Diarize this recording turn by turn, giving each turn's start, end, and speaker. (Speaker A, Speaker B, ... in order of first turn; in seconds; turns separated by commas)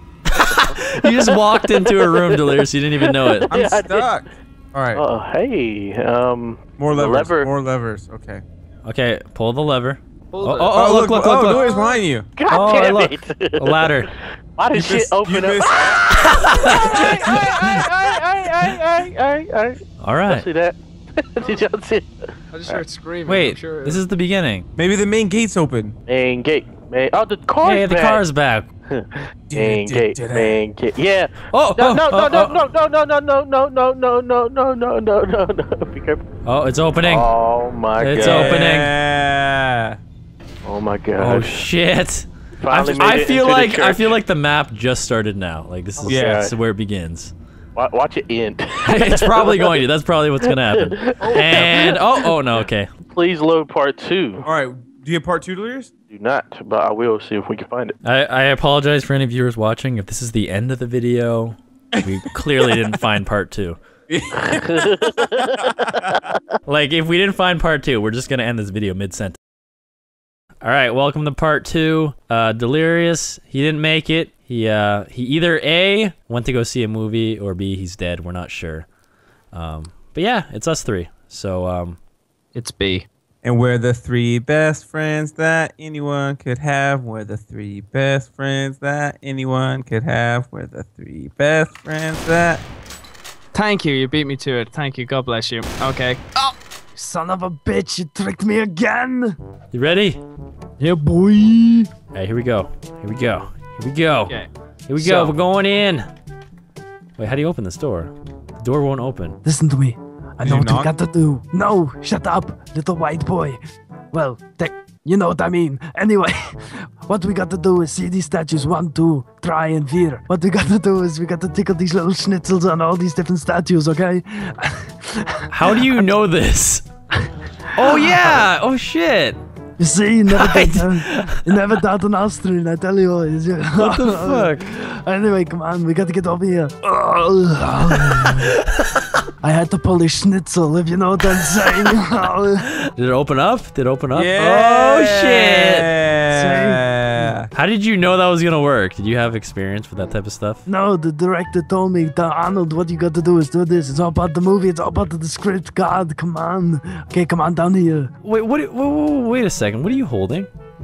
Speaker A: 0.2-3.5, Speaker B: 0.4-4.1, Speaker C: 3.5-5.0, Speaker B: 4.9-7.5, Speaker C: 6.8-8.4, Speaker A: 8.8-11.8, Speaker D: 10.3-10.8, Speaker C: 10.7-12.3, Speaker B: 11.6-22.1, Speaker A: 12.5-14.1, Speaker C: 14.7-16.1, Speaker A: 16.1-17.8, Speaker A: 20.0-20.5, Speaker D: 22.5-24.0, Speaker A: 23.3-24.6, Speaker C: 24.7-25.9, Speaker B: 26.1-28.2, Speaker A: 27.6-28.7, Speaker B: 28.9-36.2, Speaker C: 29.5-30.6, Speaker A: 31.5-32.6, Speaker A: 36.4-37.3, Speaker B: 37.0-38.7, Speaker A: 38.0-39.0, Speaker C: 38.1-40.0, Speaker B: 40.6-41.7, Speaker A: 41.2-47.3, Speaker B: 42.6-44.2, Speaker B: 46.0-46.5, Speaker C: 46.1-46.5, Speaker B: 47.8-49.8, Speaker A: 48.8-52.9, Speaker B: 50.4-52.4, Speaker C: 51.4-51.9, Speaker B: 53.1-54.5, Speaker C: 54.4-55.9, Speaker B: 56.1-57.9, Speaker A: 58.0-63.8, Speaker C: 62.0-62.9, Speaker C: 64.1-66.3, Speaker B: 64.4-65.7, Speaker A: 66.7-69.4, Speaker A: 70.6-78.9, Speaker A: 79.5-82.0, Speaker D: 82.5-83.1, Speaker C: 83.4-92.6, Speaker D: 93.5-96.2, Speaker E: 96.3-99.4, Speaker A: 99.7-100.2, Speaker D: 100.8-101.9, Speaker A: 102.1-106.1, Speaker D: 104.3-105.3, Speaker A: 107.2-109.4, Speaker E: 109.4-113.6, Speaker C: 110.4-111.0, Speaker E: 114.1-125.6, Speaker A: 125.5-126.8, Speaker A: 127.7-129.4, Speaker E: 129.8-138.6, Speaker A: 130.3-131.4, Speaker A: 133.8-134.7, Speaker A: 138.1-139.2, Speaker E: 139.4-142.7, Speaker A: 142.8-145.9, Speaker C: 144.1-147.5, Speaker E: 146.3-147.3, Speaker A: 147.5-150.6, Speaker E: 150.7-158.1, Speaker A: 158.2-160.5